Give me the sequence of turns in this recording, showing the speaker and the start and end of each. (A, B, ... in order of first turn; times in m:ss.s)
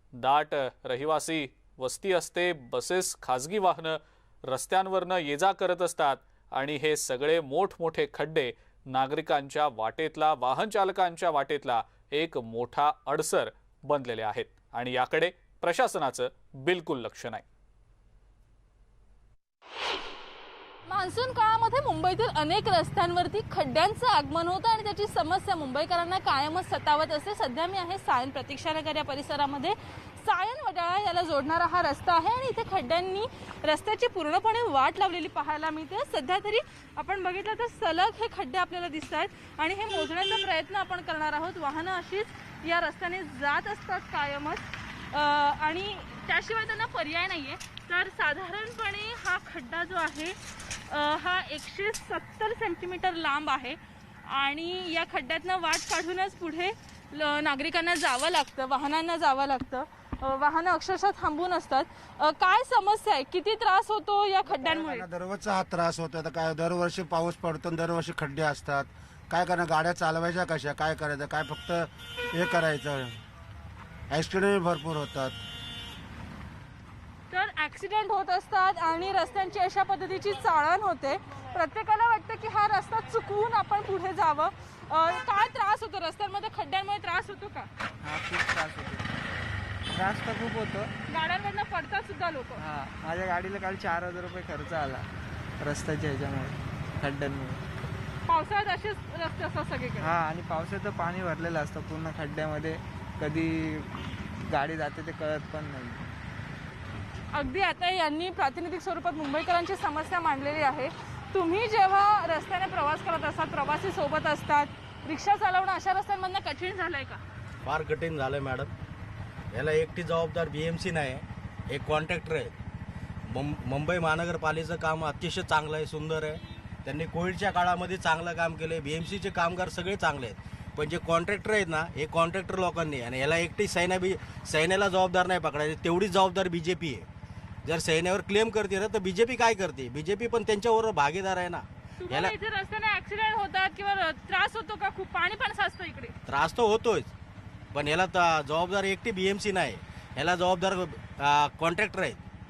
0:00.2-0:17.4 A
0:20.9-0:50.4 B
0:50.9-1:05.1 B
1:04.5-1:13.2 C
1:14.1-1:15.4 C
1:17.3-1:27.7 B
1:28.0-1:29.2 D
1:29.9-1:30.9 D
1:31.1-1:32.6 B
1:32.6-1:35.1 D
1:35.6-1:37.6 D
1:38.3-1:40.2 B
1:40.0-1:43.9 D
1:44.5-1:46.0 D
1:47.3-1:57.2 B
1:57.6-1:58.7 E
1:59.5-2:02.5 E
2:03.3-2:17.1 E
2:17.6-2:22.3 E
2:22.0-2:26.2 B
2:26.3-2:27.1 E
2:27.7-2:32.2 E